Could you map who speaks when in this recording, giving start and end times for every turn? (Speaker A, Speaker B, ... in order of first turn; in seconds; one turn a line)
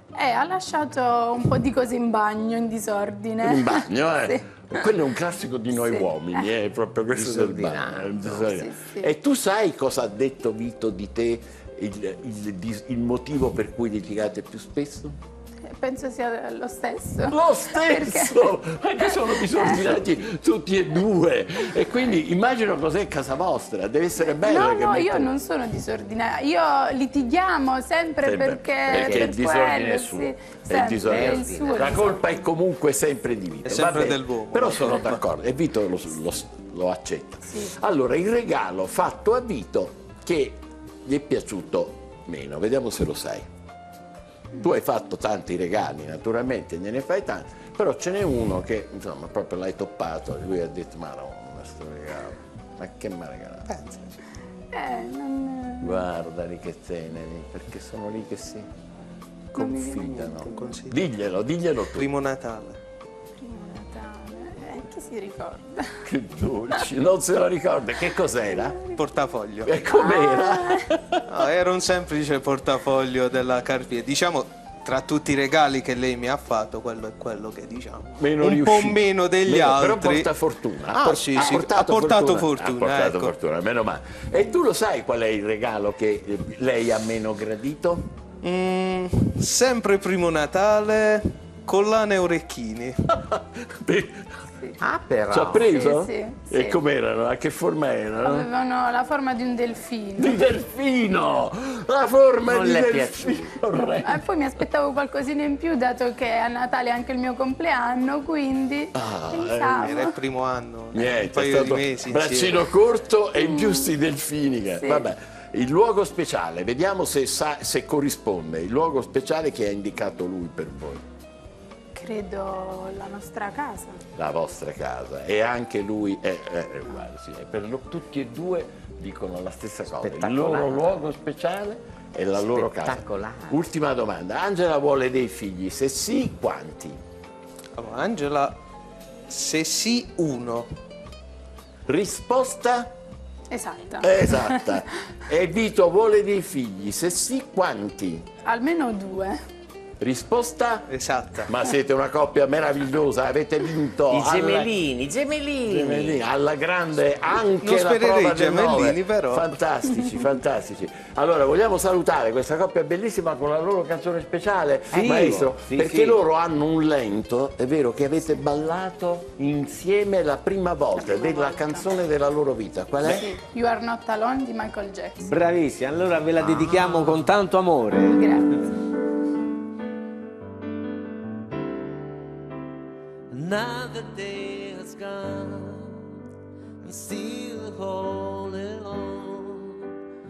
Speaker A: 0.2-4.8
Speaker B: 3.4-15.2
Speaker A: 5.7-6.5
Speaker C: 7.1-8.5
Speaker A: 8.5-9.1
Speaker A: 15.7-18.5
Speaker B: 17.3-25.3
Speaker A: 19.0-20.0
Speaker A: 24.2-32.2
Speaker B: 28.2-43.5
Speaker C: 31.0-32.2
Speaker D: 33.6-35.2
Speaker A: 37.5-37.7
Speaker B: 44.6-53.7
Speaker D: 53.7-54.1
Speaker A: 54.7-56.0
Speaker B: 55.8-58.7
Speaker B: 59.5-62.1
Speaker A: 59.6-60.5
Speaker D: 60.5-61.0
Speaker D: 61.9-62.8
Speaker A: 63.4-66.1
Speaker B: 66.0-68.8
Speaker D: 68.9-69.8
Speaker B: 69.7-71.2
Speaker A: 69.9-70.9
Speaker D: 71.3-80.3
Speaker B: 78.2-88.0
Speaker D: 80.9-83.3
Speaker D: 88.4-93.0
Speaker B: 93.1-94.3
Speaker C: 94.8-95.7
Speaker B: 95.3-98.5
Speaker A: 95.7-96.8
Speaker A: 98.2-100.4
Speaker B: 100.2-104.2
Speaker C: 102.5-103.6
Speaker A: 104.0-110.1
Speaker B: 108.9-110.0
Speaker D: 109.8-112.7
Speaker B: 110.9-121.0
Speaker A: 113.4-113.9
Speaker A: 114.8-115.1
Speaker A: 122.0-124.0
Speaker B: 124.2-137.0
Speaker C: 130.0-131.0
Speaker C: 132.3-133.6
Speaker D: 137.8-138.6
Speaker D: 139.3-140.8
Speaker B: 141.9-142.9
Speaker A: 143.5-144.9
Speaker B: 144.0-148.3
Speaker A: 148.5-149.4
Speaker B: 150.0-150.9
Speaker D: 150.9-151.5
Speaker B: 151.4-154.7
Speaker C: 154.1-156.2
Speaker B: 155.7-173.3
Speaker D: 157.6-159.5
Speaker C: 164.9-166.1
Speaker A: 171.0-171.8
Speaker A: 173.1-175.3
Speaker E: 175.2-178.4
Speaker C: 176.4-177.3
Speaker A: 178.1-178.6
Speaker F: 183.3-186.1
Speaker F: 186.8-189.9